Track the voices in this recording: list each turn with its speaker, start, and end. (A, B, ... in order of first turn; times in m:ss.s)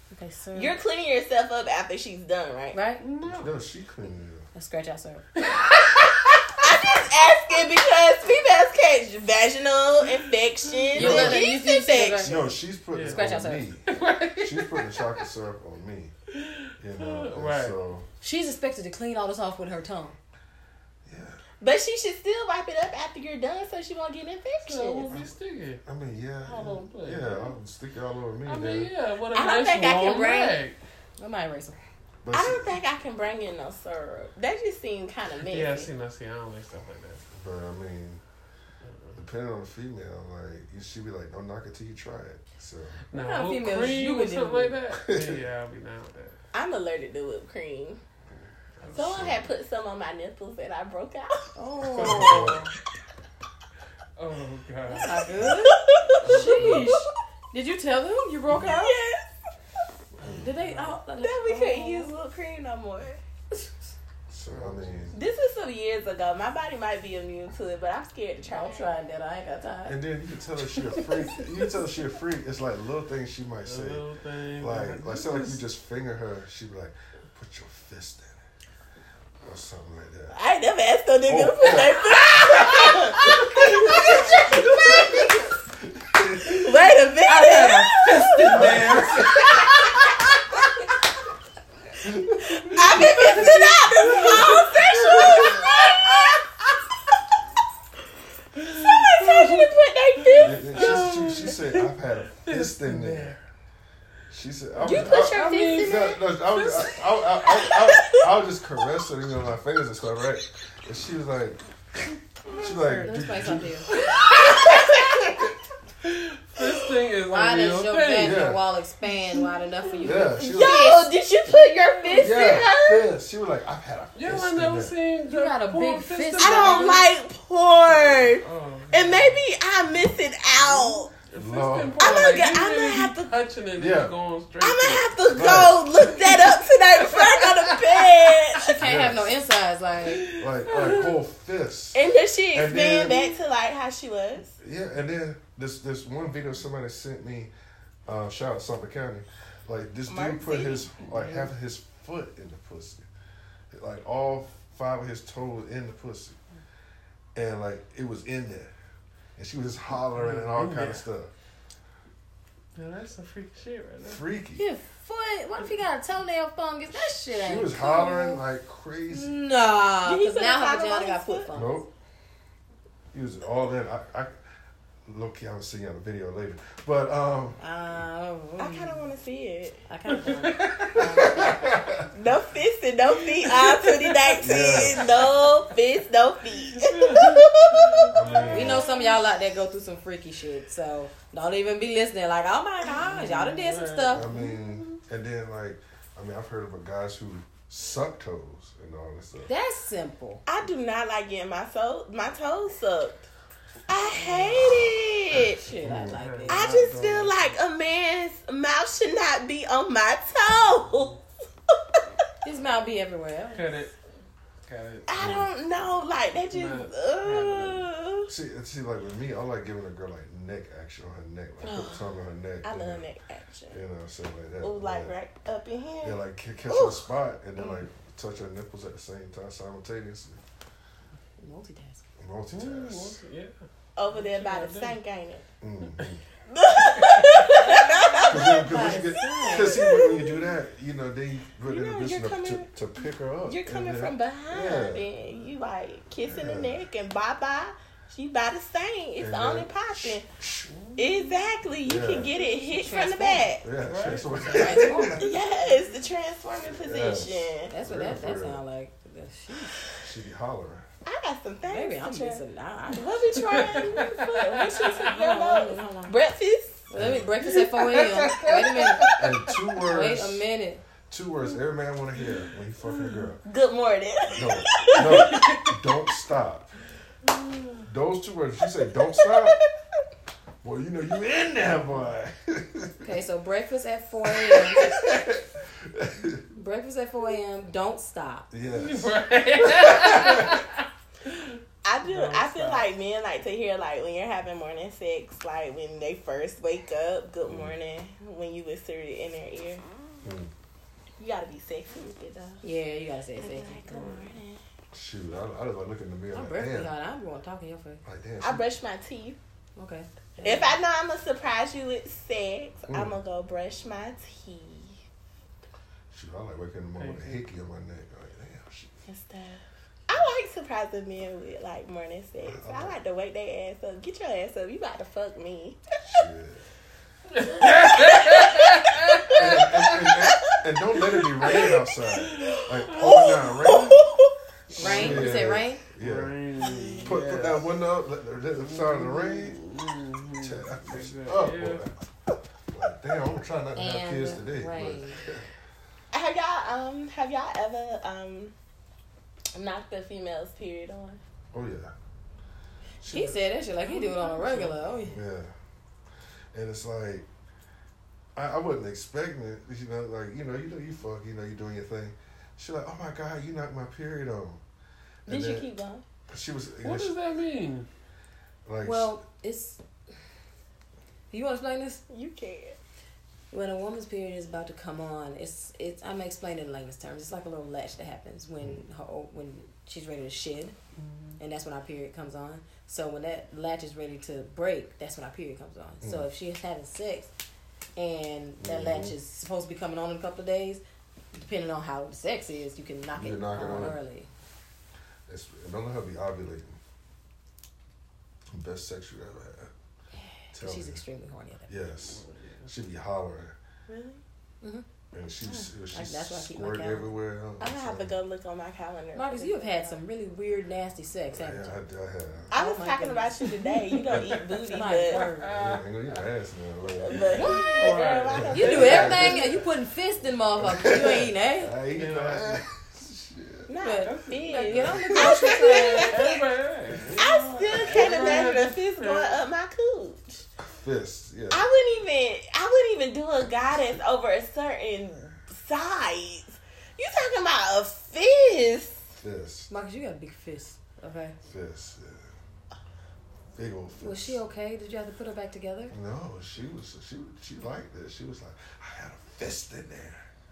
0:00.1-0:00.8 A
0:00.5-0:02.8 B
0:02.7-0:03.0 A
0:03.0-0:03.6 C
0:03.2-0:04.5 D
0:04.5-0:05.2 A
0:05.4-0:06.6 C
0:06.6-0:12.4 B
0:10.9-0:12.4 A
0:10.9-0:11.4 D
0:12.2-0:16.1 D
0:12.9-0:13.2 C
0:13.0-0:13.6 A
0:13.8-0:15.2 C
0:16.3-0:17.8 C
0:16.8-0:18.1 D
0:18.2-0:20.2 A
0:21.0-0:21.4 D
0:21.6-0:25.2 B
0:24.6-0:25.8 C
0:25.8-0:28.9 D
0:26.4-0:27.5 C
0:28.4-0:30.8 C
0:29.3-0:30.6 B
0:31.2-0:31.8 A
0:32.2-0:32.8 D
0:32.3-0:35.9 B
0:35.4-0:37.2 C
0:37.3-0:38.2 D
0:38.8-0:39.2 C
0:39.2-0:43.0 D
0:43.1-0:46.4 C
0:43.1-0:44.8 A
0:44.9-0:45.4 D
0:46.5-0:48.0 B
0:48.8-0:49.3 C
0:48.8-0:49.4 D
0:48.9-0:52.5 B
0:51.6-0:52.7 A
0:51.9-0:52.7 D
0:52.0-0:52.5 C
0:54.2-0:55.4 C
0:54.9-0:59.0 A
0:55.4-0:57.0 B
0:56.2-0:56.9 C
0:58.6-0:59.3 B
1:00.2-1:00.5 D
1:00.3-1:02.1 A
1:00.6-1:00.9 C
1:01.2-1:03.2 B
1:04.3-1:05.2 D
1:04.5-1:05.1 C
1:05.1-1:08.9 B
1:08.5-1:10.0 A
1:09.8-1:14.0 D
1:10.8-1:11.5 B
1:13.6-1:15.6 C
1:14.6-1:18.4 D
1:19.4-1:20.4 D
1:20.3-1:25.5 B
1:21.3-1:26.8 D
1:26.4-1:30.4 B
1:27.2-1:29.7 C
1:28.5-1:29.6 D
1:32.0-1:35.7 D
1:32.4-1:37.2 B
1:32.7-1:35.3 C
1:38.6-1:41.9 C
1:38.6-1:41.5 B
1:40.4-1:43.3 D
1:42.4-1:43.4 C
1:44.3-1:51.6 D
1:44.8-1:47.1 C
1:44.8-1:46.2 B
1:47.4-1:48.3 B
1:52.4-1:53.9 D
1:52.6-1:53.9 A
1:53.9-1:55.2 C
1:54.2-1:55.4 B
1:56.0-1:58.5 C
1:56.6-1:57.0 B
1:57.2-2:01.1 A
1:58.2-1:58.6 D
2:00.0-2:01.0 D
2:00.1-2:03.1 B
2:02.2-2:04.9 D
2:04.1-2:07.0 C
2:05.3-2:07.1 A
2:06.4-2:11.1 B
2:08.1-2:09.4 C
2:10.6-2:15.1 C
2:11.3-2:12.1 D
2:12.0-2:13.3 B
2:13.8-2:14.1 D
2:14.6-2:18.8 B
2:15.3-2:15.9 D
2:16.0-2:18.3 C
2:18.6-2:20.3 A
2:18.8-2:19.3 D
2:20.0-2:21.2 C
2:20.2-2:22.0 D
2:21.9-2:24.5 B
2:22.5-2:23.2 D
2:24.6-2:27.5 D
2:28.1-2:33.1 D
2:30.1-2:30.9 B
2:31.0-2:31.5 C
2:33.7-2:36.4 D
2:37.3-2:38.7 D
2:39.4-2:41.3 D
2:40.1-2:41.0 C
2:42.7-2:44.2 C
2:44.0-2:44.6 D
2:44.6-2:48.4 A
2:47.2-2:49.3 D
2:49.1-2:51.9 A
2:50.0-2:51.5 B
2:51.5-2:51.9 D
2:53.1-2:54.3 D
2:55.0-2:57.6 D
2:57.6-2:59.1 A
2:58.6-2:59.8 B
2:59.9-3:01.9 A
3:00.1-3:01.1 C
3:00.9-3:02.1 D
3:02.1-3:08.4 B
3:03.2-3:05.3 C
3:04.4-3:05.1 D
3:06.5-3:09.2 C
3:08.1-3:08.9 D
3:08.5-3:14.3 A
3:12.8-3:15.0 C
3:14.1-3:19.5 D
3:19.5-3:20.4 A
3:20.4-3:23.2 B
3:23.9-3:25.6 B
3:24.1-3:24.6 A
3:25.5-3:26.9 A
3:25.8-3:26.2 D
3:26.1-3:27.5 C
3:26.5-3:31.2 B
3:32.4-3:33.8 A
3:33.5-3:33.9 C
3:34.6-3:35.3 C
3:35.1-3:38.3 B
3:35.2-3:35.5 D
3:36.5-3:37.9 C
3:38.3-3:43.1 D
3:41.6-3:42.0 B
3:42.6-3:43.8 B
3:43.7-3:45.1 D
3:44.6-3:47.1 B
3:46.0-3:50.4 D
3:51.4-3:52.0 A
3:52.2-3:53.2 D
3:52.5-3:55.0 C
3:54.0-3:55.4 B
3:55.6-3:56.2 D
3:56.5-4:00.5 B
3:56.8-3:57.6 C
3:57.5-3:59.9 A
3:58.3-4:05.0 D
4:01.6-4:02.7 B
4:03.5-4:10.2 B
4:06.2-4:06.8 D
4:09.2-4:10.7 D
4:10.7-4:11.4 C
4:11.0-4:13.6 B
4:11.8-4:12.3 D
4:12.3-4:13.5 A
4:13.6-4:15.3 D
4:13.8-4:15.2 C
4:14.5-4:15.3 A
4:15.2-4:17.7 B
4:16.8-4:18.6 D
4:17.7-4:19.7 A
4:20.0-4:20.8 D
4:21.0-4:26.9 B
4:21.7-4:23.8 A
4:23.4-4:25.0 C
4:25.0-4:26.2 A
4:26.9-4:29.1 A
4:26.9-4:27.3 D
4:27.4-4:29.5 C
4:29.2-4:30.4 D
4:29.8-4:30.8 A
4:31.1-4:33.4 D
4:32.2-4:33.3 C
4:33.4-4:35.6 B
4:34.3-4:36.7 D
4:34.9-4:35.8 C
4:37.2-4:37.8 C
4:37.9-4:39.6 D
4:39.1-4:39.6 B
4:40.6-4:43.0 D
4:43.0-4:45.0 A
4:44.3-4:46.4 D
4:46.5-4:48.5 A
4:48.5-4:50.6 D
4:48.7-4:52.9 C
4:51.8-4:59.8 B
4:57.4-4:57.7 D
5:00.2-5:00.5 D
5:01.2-5:02.6 B
5:02.6-5:03.8 A
5:03.4-5:04.6 B
5:03.8-5:04.4 C
5:04.9-5:06.9 D
5:06.3-5:08.0 A
5:08.0-5:08.6 D
5:08.4-5:09.4 B
5:09.8-5:10.1 A
5:10.4-5:10.6 C
5:10.4-5:15.0 B
5:12.9-5:13.2 D
5:16.1-5:19.0 D
5:17.0-5:17.4 C
5:19.1-5:25.8 B
5:22.4-5:23.0 D
5:26.0-5:26.6 D
5:27.3-5:30.0 C
5:27.6-5:30.5 B
5:29.3-5:34.0 D
5:31.1-5:31.8 B
5:32.2-5:33.8 C
5:32.3-5:34.3 B
5:34.7-5:36.3 D
5:34.7-5:37.6 C
5:34.7-5:35.8 A
5:36.6-5:37.2 B
5:37.0-5:39.6 D
5:38.6-5:41.8 C
5:40.4-5:41.9 D
5:42.7-5:45.4 D
5:43.8-5:45.2 A
5:46.1-5:48.5 B
5:49.5-5:51.2 B
5:51.5-5:51.9 D
5:53.0-5:53.4 D
5:53.1-5:55.2 A
5:53.9-5:54.7 C
5:55.0-5:55.5 D
5:56.5-5:57.3 D
5:58.4-6:04.6 D
6:05.3-6:05.7 D
6:05.3-6:06.0 B
6:06.3-6:07.1 D
6:06.8-6:07.9 C
6:08.6-6:09.1 D
6:08.8-6:09.8 A
6:11.3-6:12.0 A
6:12.1-6:12.8 B
6:13.5-6:20.7 A
6:21.0-6:21.3 C
6:21.4-6:27.3 A
6:26.0-6:26.3 D
6:28.0-6:30.8 A
6:28.6-6:29.2 D
6:31.3-6:34.3 A
6:33.2-6:34.0 D
6:35.3-6:36.8 D
6:38.5-6:39.7 D
6:40.5-6:41.7 A
6:40.5-6:41.0 D
6:41.7-6:43.5 D
6:42.0-6:42.7 C
6:43.9-6:44.2 B
6:45.1-6:48.1 D
6:45.5-6:47.2 A
6:47.6-6:50.0 B
6:49.1-6:51.8 A
6:51.3-6:52.5 D
6:52.5-6:55.2 B
6:52.5-6:53.4 A
6:53.6-6:55.8 C
6:54.7-6:55.5 A
6:55.5-6:57.6 D
6:56.8-6:59.5 B
6:57.2-6:59.4 C
6:58.3-6:59.6 D
6:58.5-7:01.7 A
7:00.6-7:03.7 D
7:01.9-7:02.6 C
7:03.7-7:06.4 B
7:03.8-7:06.3 A
7:04.0-7:09.4 C
7:07.1-7:10.4 B
7:10.6-7:11.6 D
7:11.5-7:19.2 B
7:19.2-7:19.7 D
7:19.7-7:21.4 A
7:21.4-7:22.3 D
7:23.6-7:24.4 D
7:24.0-7:25.9 A
7:25.9-7:30.3 D